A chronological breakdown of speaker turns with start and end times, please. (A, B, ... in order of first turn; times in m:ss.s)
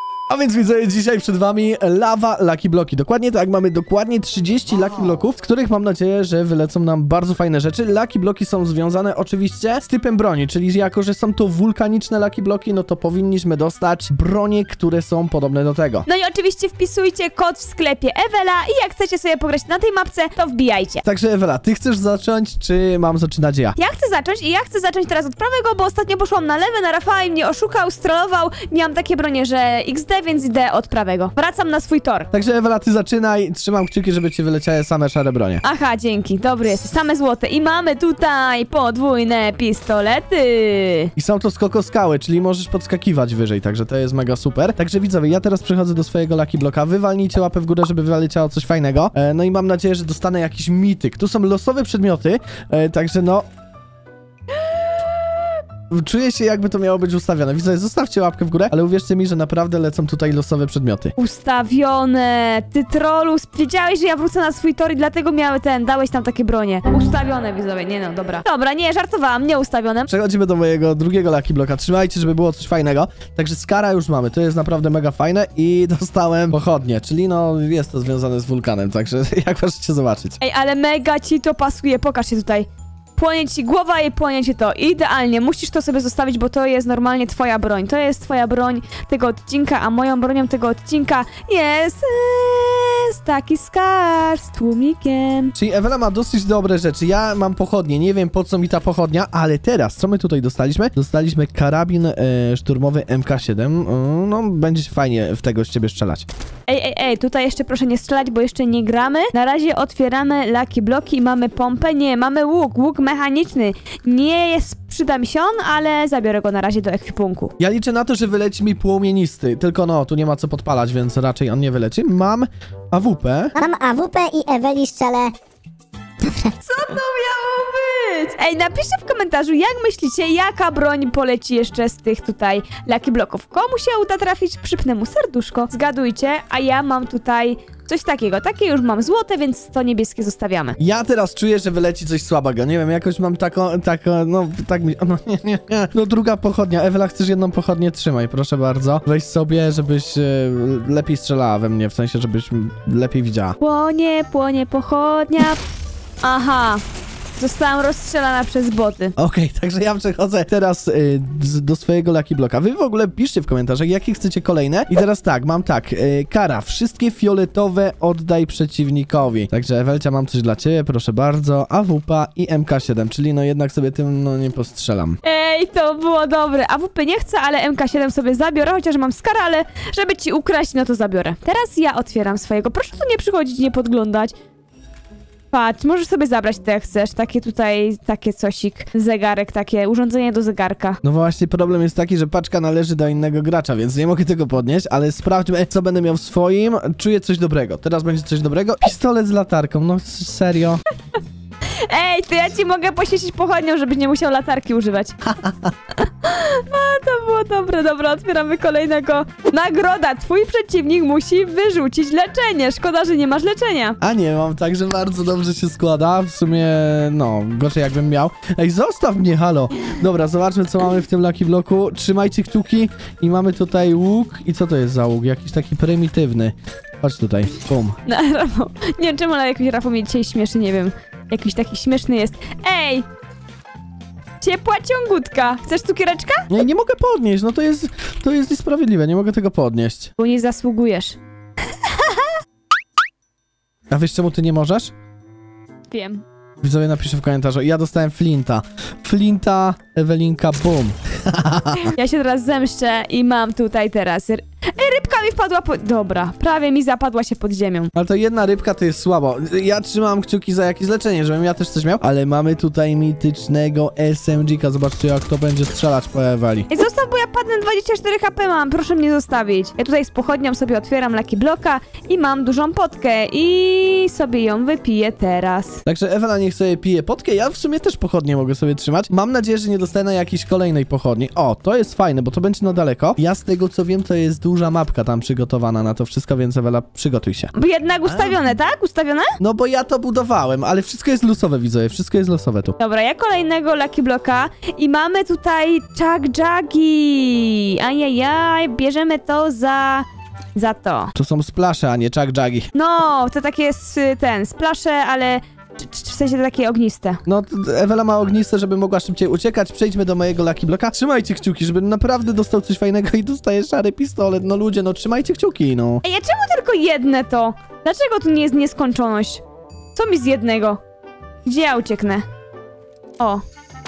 0:00.3-0:16.0 A
0:16.1-0:21.0 B
0:21.0-0:23.7 A
0:23.8-0:32.3 B
0:32.3-0:35.6 A
0:35.6-0:41.1 B
0:41.2-0:53.4 A
0:55.9-1:01.1 A
1:01.2-1:10.1 B
1:10.1-1:20.4 A
1:20.4-1:35.5 B
1:35.5-1:46.2 A
1:46.7-1:57.5 B
1:57.6-2:03.5 A
2:03.6-2:05.3 C
2:06.2-2:06.5 C
2:06.6-2:20.8 B
2:20.8-2:33.6 A
2:33.6-2:35.6 B
2:36.2-2:36.8 B
2:37.4-2:39.1 B
2:39.2-2:55.2 A
2:55.2-3:04.3 B
3:05.5-3:11.0 B
3:11.0-3:20.8 A
3:21.8-3:25.2 B
3:25.2-3:25.7 A
3:26.0-3:34.0 B
3:34.0-3:48.0 A
3:48.0-3:53.0 B
3:54.4-3:56.5 B
3:56.5-4:00.1 A
4:00.2-4:01.2 B
4:01.7-4:02.3 B
4:03.9-4:04.9 A
4:05.9-4:06.2 B
4:06.6-4:11.9 A
4:11.8-4:17.9 B
4:17.9-4:26.7 A
4:26.7-4:35.8 B
4:35.8-4:47.5 A
4:47.5-4:49.3 B
4:48.0-4:48.5 A
4:49.4-4:52.7 A
4:52.8-5:01.1 B
5:01.1-5:02.7 A
5:02.7-5:07.2 B
5:07.2-5:16.0 A
5:16.0-5:19.4 B
5:19.9-5:20.8 B
5:21.4-5:22.2 B